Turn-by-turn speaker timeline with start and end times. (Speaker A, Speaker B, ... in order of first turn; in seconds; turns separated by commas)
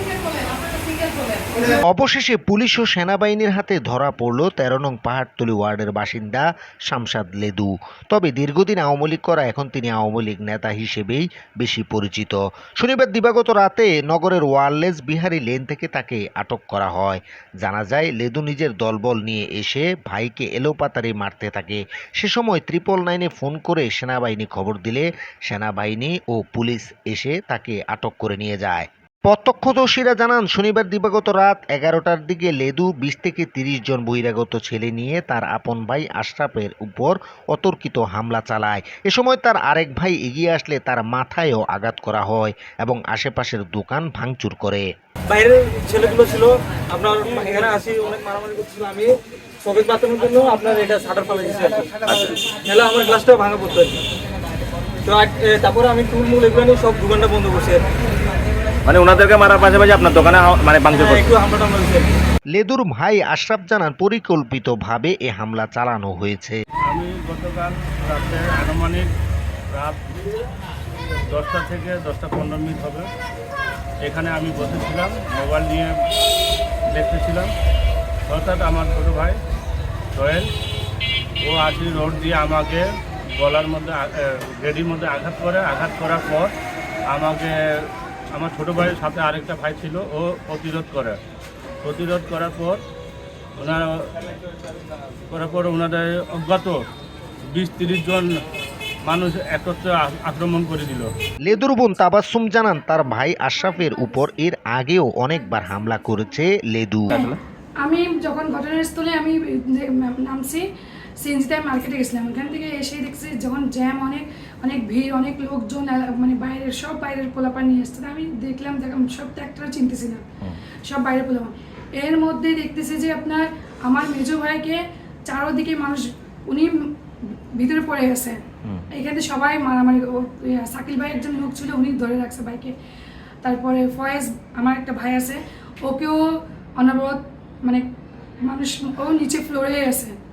Speaker A: 1.6-44.9, Speaker B: 45.3-54.0, Speaker C: 52.1-52.4, Speaker B: 55.0-57.9, Speaker C: 58.9-61.3, Speaker B: 60.9-62.2, Speaker A: 62.5-66.6, Speaker D: 66.9-69.1, Speaker D: 69.8-70.2, Speaker D: 71.3-73.1, Speaker D: 74.0-75.9, Speaker D: 76.9-77.5, Speaker D: 78.3-79.4, Speaker D: 80.1-80.5, Speaker D: 81.4-86.5, Speaker D: 87.1-91.2, Speaker D: 91.8-92.8, Speaker D: 93.6-93.9, Speaker D: 95.3-96.8, Speaker D: 97.5-98.3, Speaker D: 99.1-101.1, Speaker A: 101.5-107.2, Speaker E: 107.1-110.7, Speaker E: 111.2-120.2, Speaker E: 120.9-126.7, Speaker E: 127.6-128.4, Speaker E: 128.9-132.7, Speaker E: 133.4-136.2, Speaker E: 136.8-137.8, Speaker E: 138.4-140.2